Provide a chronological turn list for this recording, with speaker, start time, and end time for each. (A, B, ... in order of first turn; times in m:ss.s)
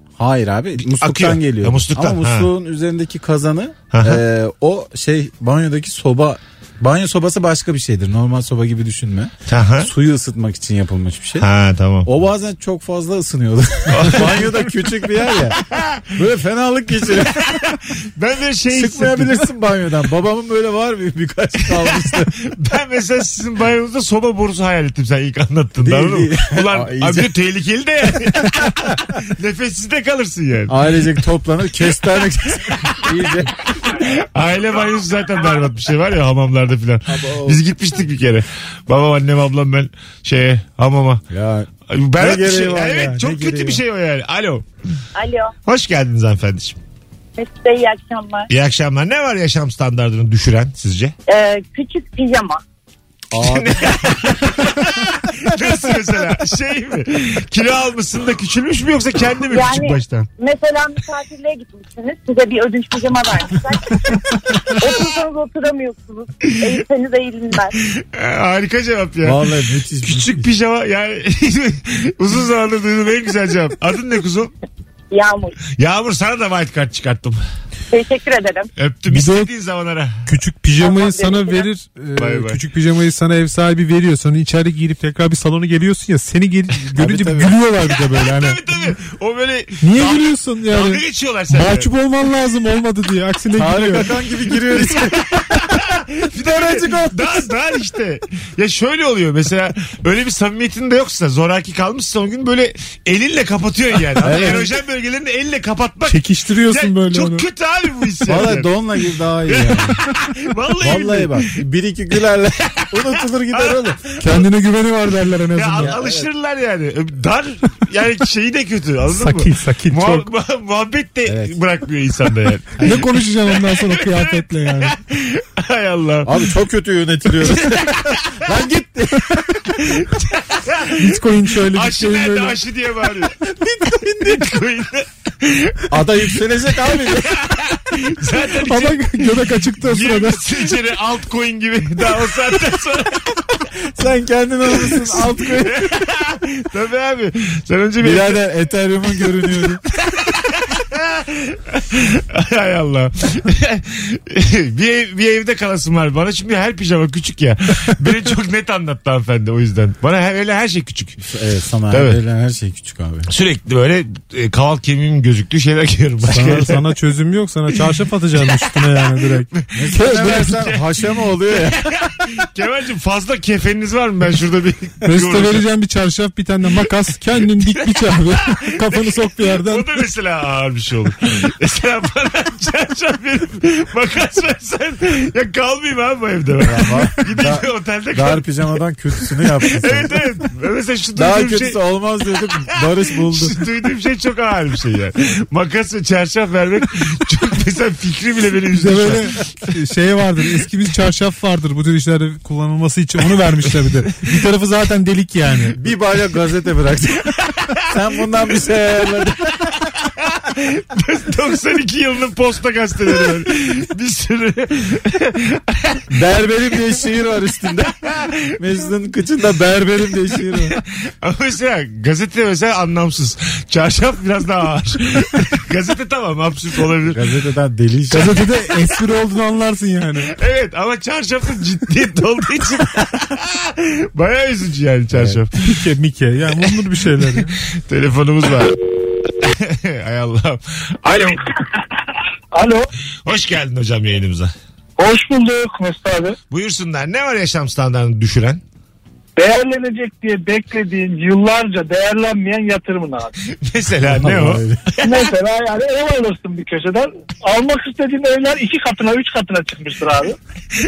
0:00.2-0:11.5 A
0:00.8-0:02.5 B
0:03.9-0:04.2 B
0:09.5-0:09.9 B
0:11.4-0:12.1 B
0:12.0-0:15.6 A
0:13.9-0:14.6 B
0:15.7-0:16.1 B
0:16.2-0:17.5 A
0:17.3-0:19.4 B
0:18.7-0:22.3 A
0:21.7-0:30.8 B
0:25.8-0:27.3 A
0:30.7-0:33.6 A
0:32.7-0:33.1 B
0:33.8-0:41.2 B
0:37.1-0:37.6 A
0:41.3-0:43.8 A
0:41.9-0:44.6 B
0:45.2-0:45.5 C
0:45.7-0:46.8 B
0:47.4-0:48.5 C
0:48.5-0:51.1 B
0:51.3-0:52.6 C
0:53.3-0:54.6 A
0:53.3-1:00.3 B
0:59.5-1:04.0 C
1:04.8-1:07.8 C
1:08.0-1:09.4 B
1:09.2-1:10.5 A
1:10.0-1:14.5 B
1:15.1-1:15.6 C
1:15.8-1:17.4 B
1:17.9-1:18.7 C
1:18.8-1:20.3 B
1:19.1-1:19.5 D
1:20.3-1:28.6 D
1:20.8-1:21.7 C
1:22.2-1:22.6 B
1:27.0-1:27.6 A
1:27.9-1:31.9 B
1:29.8-1:34.1 D
1:33.5-1:35.8 A
1:34.9-1:48.7 B
1:36.4-1:37.4 A
1:44.2-1:44.7 A
1:46.1-1:47.4 D
1:48.3-1:50.0 A
1:49.5-1:51.5 B
1:50.8-1:54.0 A
1:52.8-1:54.5 B
1:54.2-1:55.9 D
1:55.5-2:06.4 B
1:55.8-1:56.3 A
1:59.1-2:00.3 D
2:01.3-2:01.6 A
2:02.8-2:05.0 D
2:06.2-2:09.6 A
2:07.4-2:08.2 B
2:09.8-2:13.4 B
2:11.0-2:12.6 D
2:13.6-2:14.4 A
2:13.9-2:16.0 B
2:15.9-2:17.6 A
2:16.9-2:23.4 B
2:18.5-2:20.4 D
2:23.9-2:26.0 A
2:24.8-2:28.4 B
2:28.0-2:29.8 A
2:29.9-2:41.2 B
2:41.2-2:43.3 A
2:41.9-2:42.2 B
2:43.3-2:46.8 B
2:46.3-2:50.5 D
2:48.4-2:50.8 B
2:49.8-2:51.9 A
2:51.6-2:55.6 B
2:55.1-2:59.9 D
2:57.6-3:08.5 B
3:06.6-3:10.2 A
3:09.6-3:11.8 B
3:11.2-3:13.6 A
3:13.3-3:19.3 B
3:18.7-3:25.8 D
3:25.8-3:27.3 A
3:27.9-3:29.6 A
3:30.0-3:36.0 B
3:36.1-3:37.9 A
3:38.0-3:38.4 B
3:38.6-3:40.8 A
3:40.8-3:47.2 B
3:47.0-3:48.4 A
3:48.1-3:50.3 D
3:50.3-3:55.6 B
3:55.1-3:55.4 A
3:55.6-3:57.5 D
3:56.6-3:58.8 B
3:59.4-4:01.4 B
4:01.1-4:01.3 E
4:02.5-4:02.9 E
4:03.3-4:04.5 B
4:05.0-4:06.4 E
4:06.5-4:08.6 B
4:09.4-4:13.3 E
4:13.6-4:15.2 B
4:14.1-4:14.8 A
4:15.0-4:20.4 E